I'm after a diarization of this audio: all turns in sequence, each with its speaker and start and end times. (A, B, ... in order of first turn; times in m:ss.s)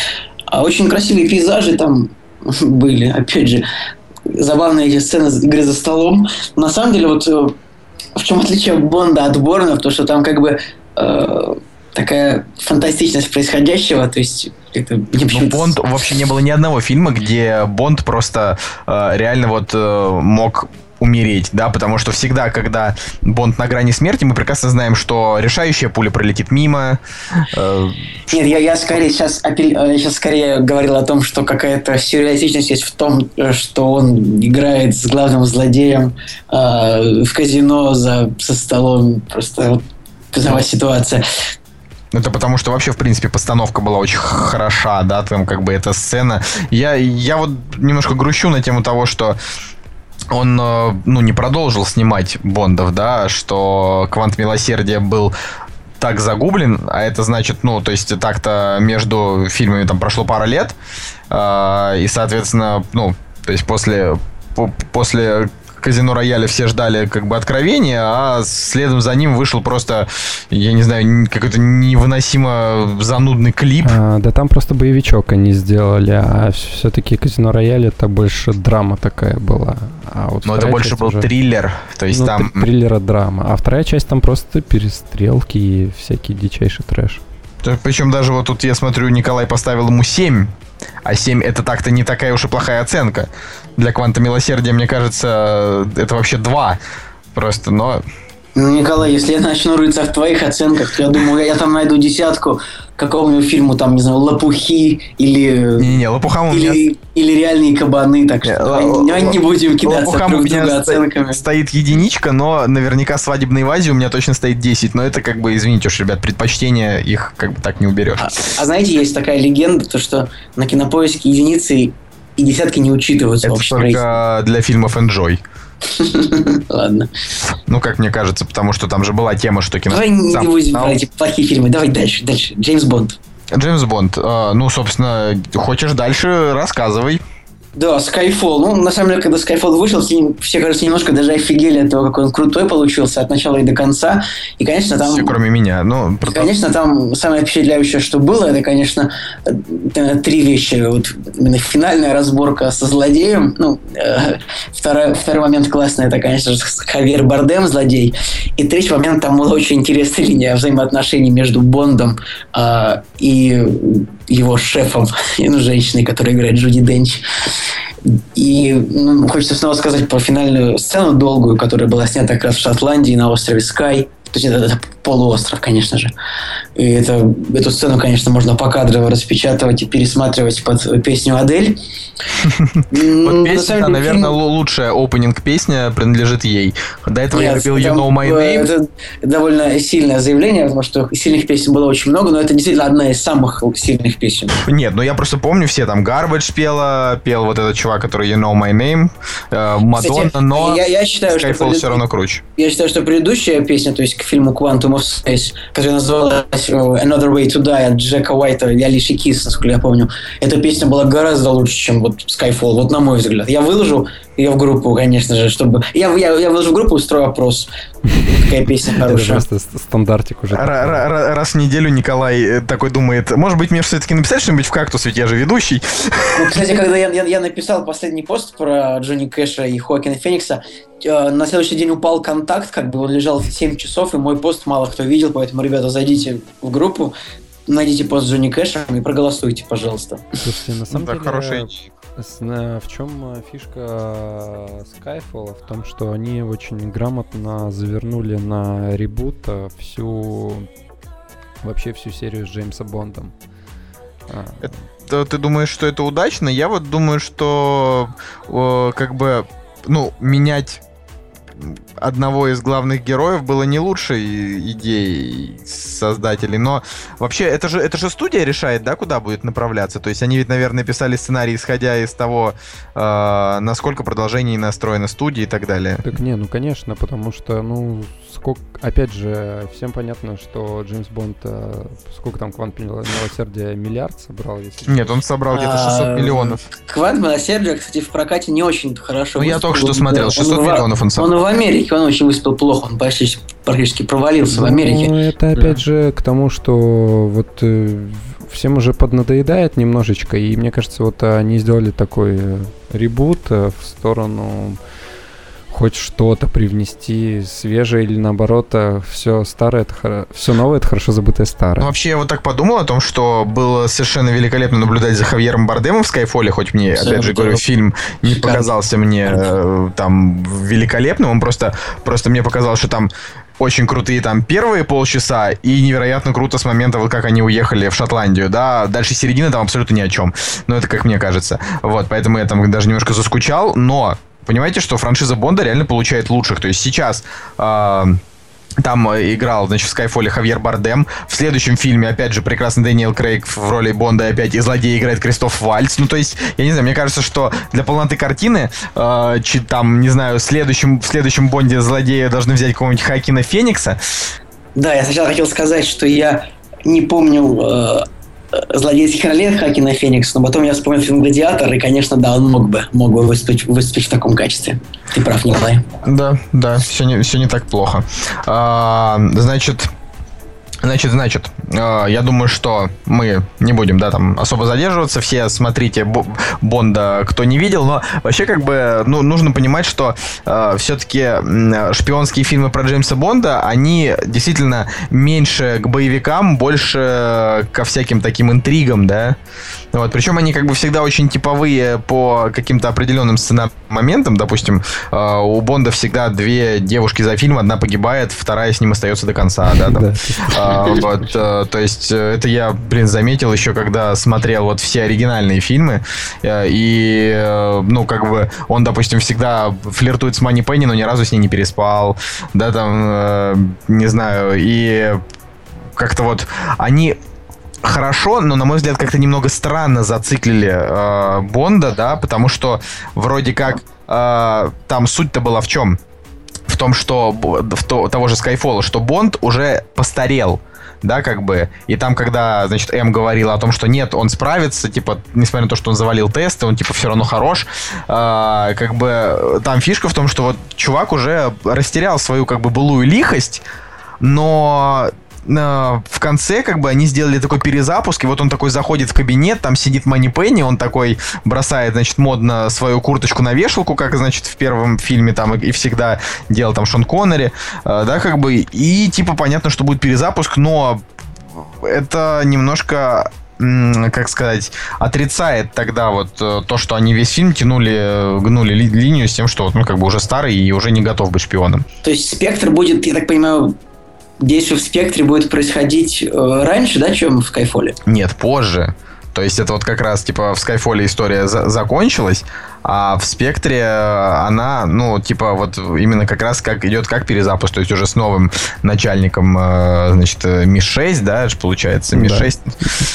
0:00.5-0:03.6 A
0:04.3-0:07.6 A
0:08.2-0:15.7 A
0:15.3-0:28.4 B
0:28.3-0:41.2 A
0:42.1-0:49.4 B
0:50.3-0:55.3 B
0:56.0-1:00.8 B
1:01.3-1:14.0 B
1:13.8-1:21.3 C
1:20.4-1:22.7 B
1:22.1-1:27.2 C
1:27.6-1:30.5 B
1:31.0-1:36.8 B
1:37.3-1:38.0 B
1:38.5-1:51.4 A
1:45.8-1:46.8 B
1:48.4-1:58.3 B
1:58.2-2:04.0 A
2:03.4-2:05.4 B
2:05.9-2:07.1 A
2:07.7-2:11.0 B
2:09.9-2:13.2 A
2:13.5-2:17.2 B
2:17.8-2:25.3 A
2:25.0-2:26.5 B
2:26.3-2:47.2 A
2:48.0-2:56.1 A
2:56.8-3:01.8 A
3:02.4-3:08.7 B
3:02.9-3:04.4 A
3:07.3-3:14.6 A
3:14.6-3:22.4 B
3:19.9-3:22.0 A
3:22.6-3:37.7 A
3:38.3-3:39.4 A
3:39.0-3:41.1 C
3:40.5-3:46.6 B
3:46.3-3:57.1 A
3:57.7-4:00.3 A
4:00.4-4:10.7 C
4:00.9-4:01.9 B
4:11.6-4:13.3 C
4:14.3-4:14.7 C
4:14.6-4:20.8 B
4:21.6-4:36.0 B
4:36.0-4:45.2 C
4:44.8-4:46.6 B
4:45.5-4:55.1 A
4:49.4-4:51.3 B
4:54.5-5:04.8 C
5:05.7-5:11.9 C
5:11.8-5:38.2 B
5:16.9-5:17.6 A
5:18.2-5:18.7 A
5:19.3-5:19.5 A
5:38.8-5:54.0 B
5:54.8-6:05.9 A
6:06.0-6:09.9 B
6:10.8-6:29.4 B
6:29.9-6:55.2 B
6:39.8-6:41.3 C
6:56.0-6:57.2 B
6:57.8-7:06.0 B
7:06.7-7:23.6 B
7:24.2-7:51.8 B
7:52.0-7:53.8 A
7:54.4-7:58.0 A
7:58.0-8:12.8 B
8:12.1-8:13.0 C